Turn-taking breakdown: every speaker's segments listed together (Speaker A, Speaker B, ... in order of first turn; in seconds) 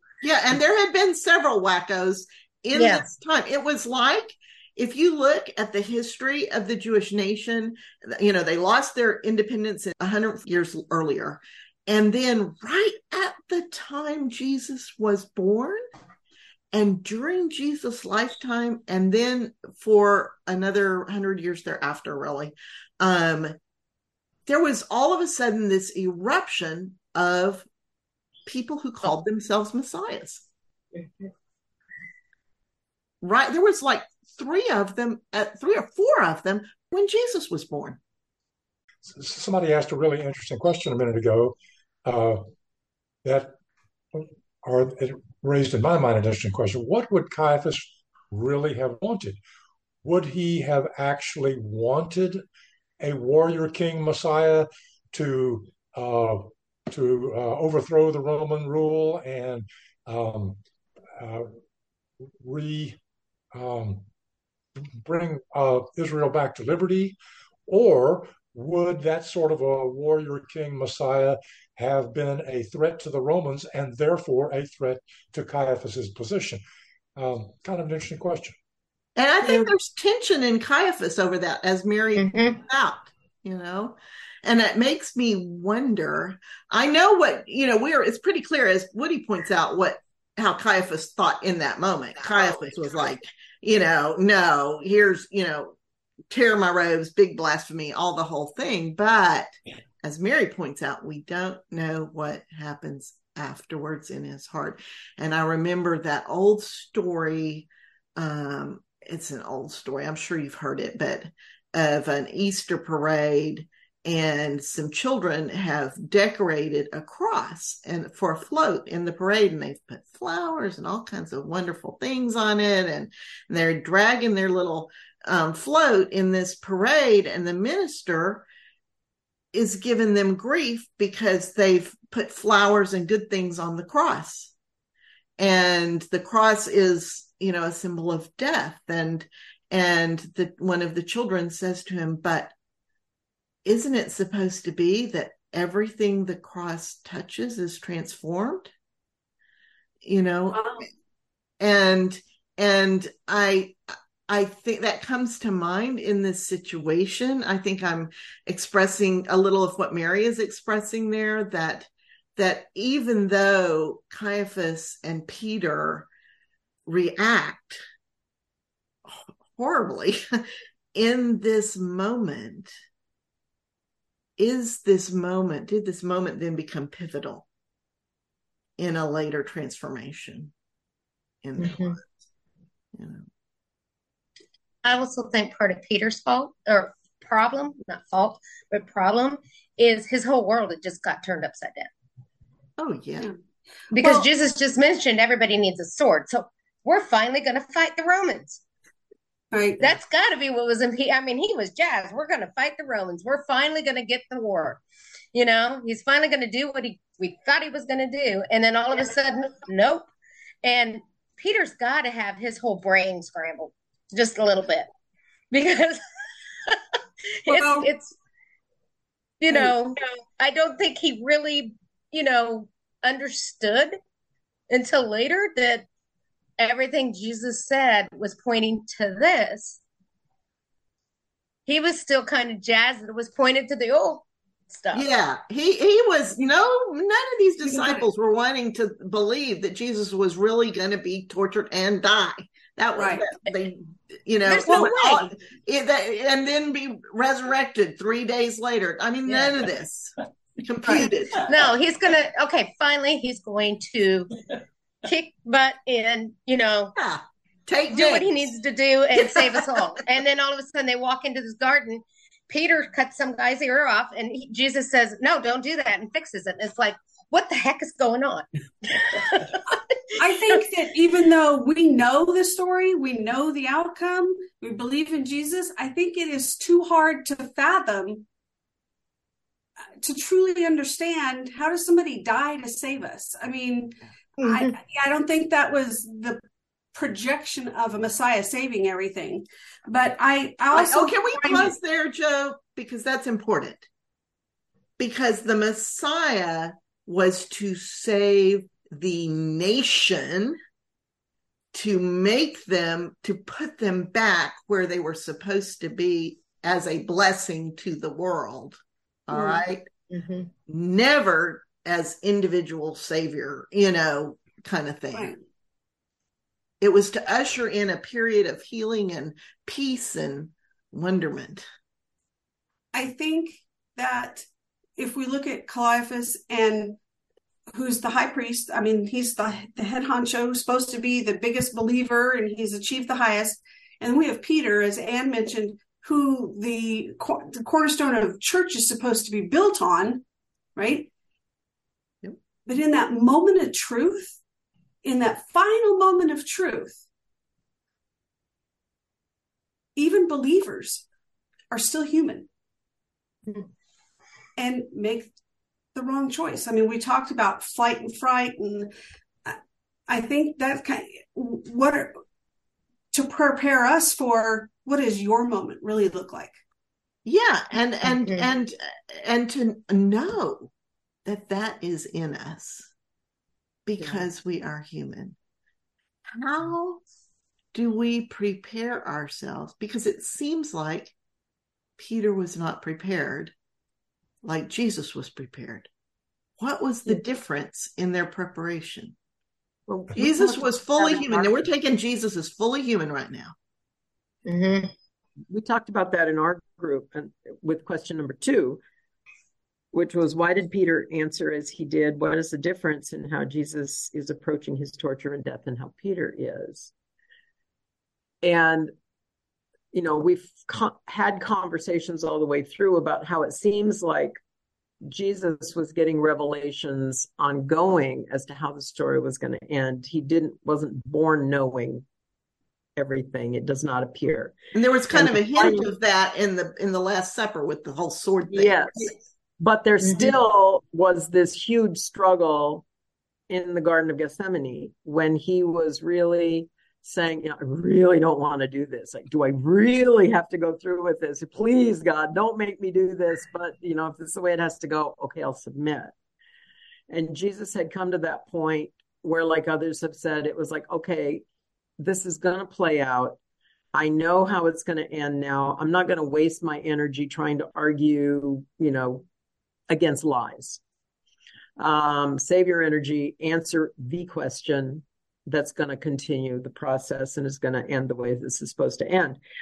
Speaker A: 0.2-15.8, 16.7-23.6, 24.5-27.7, 28.4-30.4, 33.2-38.0, 79.2-95.7, 96.3-99.5, 100.0-128.5, 129.5-134.5, 135.4-142.5, 143.6-148.7, 150.0-150.7, 151.6-153.8, 154.3-166.1, 166.9-167.8, 169.1-170.2, 170.9-172.7, 174.4-177.4, 178.8-180.5, 181.4-182.1, 182.9-183.2, 192.8-193.3, 194.0-194.3, 234.9-251.5, 256.9-258.5, 259.1-259.8, 290.7-293.9, 295.0-300.6, 301.7-309.8, 310.7-315.3, 316.8-321.6, 367.2-370.7, 371.2-372.9, 373.9-375.4, 376.3-377.0, 377.7-381.1, 382.0-383.5, 384.4-385.9, 386.6-389.1, 390.1-393.5, 424.7-429.1
Speaker B: 2.7-3.0, 82.2-82.6, 181.6-181.9, 184.8-191.9, 193.9-198.6, 199.8-204.8, 205.3-210.1, 210.6-214.9, 215.5-216.0, 217.4-218.1, 219.4-223.9, 224.7-225.8, 226.6-229.8, 231.7-235.0, 244.4-245.3, 251.4-254.4, 255.0-256.9, 257.9-269.7, 270.2-270.6, 284.4-284.7, 310.1-310.5, 368.2-368.4, 394.4-394.9
Speaker C: 39.0-42.4, 43.2-43.5, 44.1-49.4, 50.0-52.4, 53.0-60.6, 61.2-61.5, 62.4-63.0, 63.5-64.0, 65.0-67.2, 67.7-76.6, 77.2-78.6
Speaker D: 79.4-79.7, 150.5-150.8, 199.5-199.9, 217.5-217.9, 219.5-219.8, 237.6-238.1, 242.9-243.2, 249.3-249.5, 270.1-278.2, 280.0-286.4, 286.9-291.7, 309.3-309.6, 315.1-315.4, 322.9-324.4, 325.0-327.0, 327.7-340.2, 340.8-341.1, 342.6-344.4, 345.0-347.0, 349.9-351.1, 351.7-352.5, 354.6-355.3, 355.9-358.9, 360.1-362.1, 363.1-366.6
Speaker E: 374.0-374.2, 389.9-391.7, 395.5-398.8, 399.9-406.9, 408.4-408.9, 409.9-414.4, 415.0-422.1, 422.9-424.6, 425.1-425.9, 428.5-432.9, 433.5-446.1, 447.1-451.4, 452.0-453.4, 453.9-459.2, 459.9-460.8, 461.8-469.4